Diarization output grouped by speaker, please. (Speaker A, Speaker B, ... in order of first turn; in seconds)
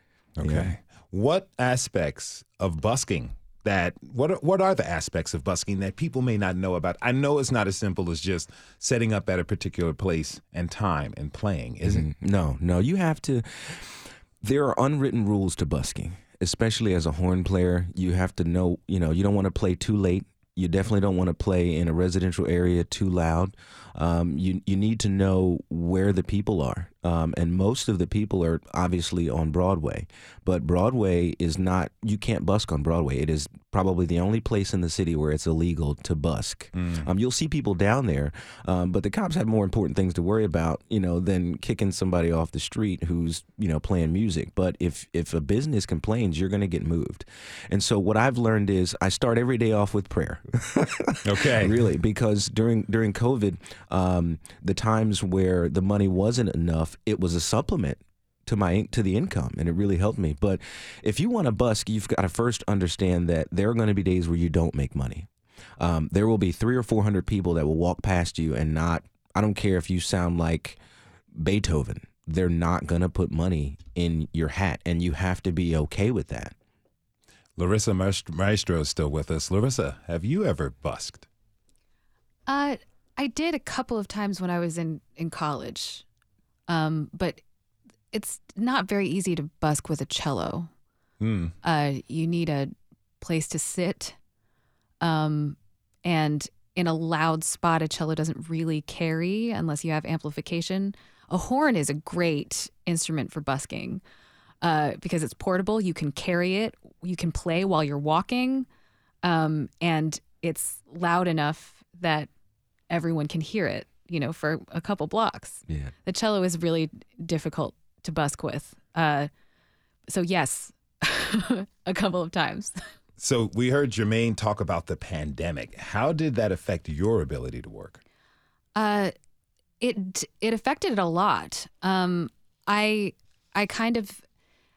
Speaker A: 0.4-12.1, 36.8-37.1, 51.2-51.8, 77.6-81.3, 91.2-91.5, 123.2-128.0
Speaker B: 0.4-0.8, 11.8-70.8, 71.3-76.5, 115.7-115.9
Speaker C: 82.5-86.0, 86.7-87.4, 88.1-90.7, 91.6-94.2, 95.0-104.0, 104.6-108.7, 109.2-112.3, 112.9-119.3, 120.1-122.8, 128.8-129.1, 129.8-134.2